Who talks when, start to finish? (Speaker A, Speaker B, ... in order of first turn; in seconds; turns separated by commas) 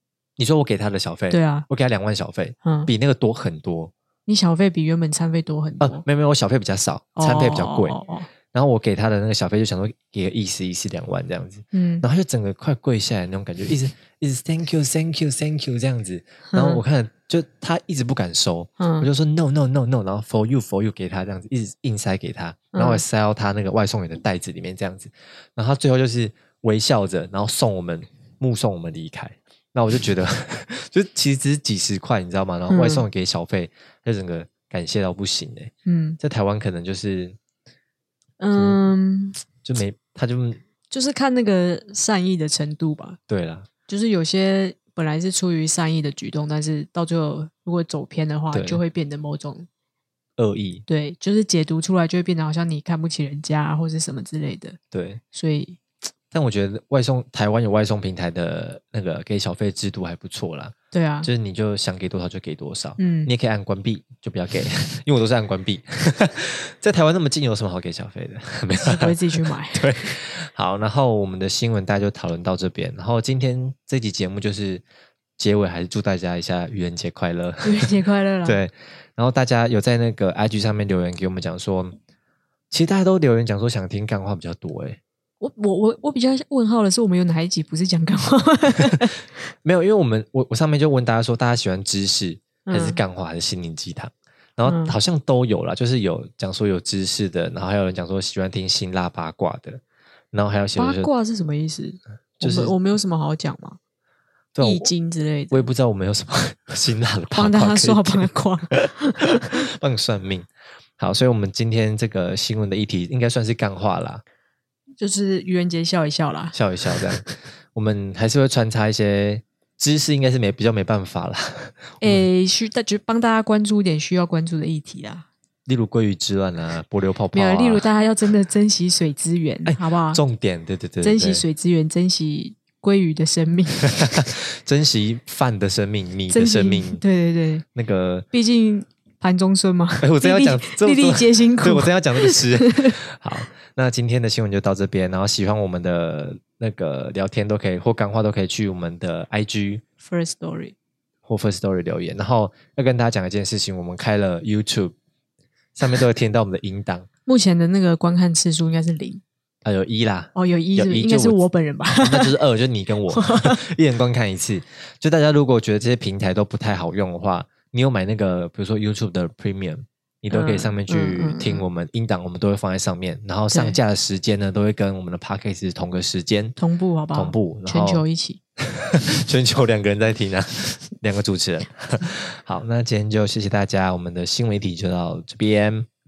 Speaker A: 0.4-3.9, Speaker B: 1.3-1.7, Speaker B: 2.6-2.9, Speaker B: 4.3-6.0, Speaker A: 5.8-8.0, Speaker B: 7.2-8.3, Speaker A: 8.5-37.4, Speaker B: 11.7-12.1, Speaker B: 16.5-16.8, Speaker B: 18.8-19.1, Speaker B: 22.7-23.0, Speaker B: 32.7-33.1, Speaker B: 35.9-36.2, Speaker B: 38.4-39.4, Speaker A: 38.5-38.8, Speaker A: 39.6-40.6, Speaker B: 40.9-43.2, Speaker A: 43.3-43.7, Speaker B: 43.9-49.7, Speaker A: 48.5-48.8, Speaker A: 50.4-50.9, Speaker B: 50.9-54.8, Speaker A: 54.9-55.2, Speaker B: 55.3-55.8, Speaker A: 56.3-74.8, Speaker B: 60.9-61.3, Speaker B: 63.0-63.3, Speaker B: 68.8-70.0, Speaker A: 75.4-77.9, Speaker B: 77.6-78.6, Speaker A: 78.5-82.0, Speaker A: 82.7-85.0, Speaker B: 85.4-89.2, Speaker A: 89.6-99.8, Speaker B: 92.7-93.0, Speaker B: 94.7-95.0, Speaker A: 100.3-101.1, Speaker B: 100.8-103.8, Speaker A: 102.4-102.7, Speaker A: 104.5-104.9, Speaker B: 104.6-105.7, Speaker A: 105.5-114.2, Speaker B: 107.3-109.5, Speaker B: 115.0-116.6, Speaker A: 116.5-122.2, Speaker B: 122.0-125.3, Speaker A: 125.7-127.9, Speaker B: 127.3-130.2, Speaker A: 129.7-131.4, Speaker B: 131.0-134.3, Speaker A: 134.0-137.0, Speaker B: 136.3-137.6, Speaker A: 137.7-138.3, Speaker B: 138.3-143.0, Speaker A: 140.0-149.8, Speaker B: 150.0-150.8, Speaker A: 151.2-154.9, Speaker A: 155.8-157.1, Speaker B: 157.3-159.2, Speaker A: 159.7-161.4, Speaker B: 160.3-162.4, Speaker A: 162.0-176.6, Speaker B: 163.1-163.6, Speaker B: 170.3-171.7, Speaker B: 173.5-173.8, Speaker B: 176.6-178.4, Speaker A: 177.1-178.1, Speaker A: 178.6-185.9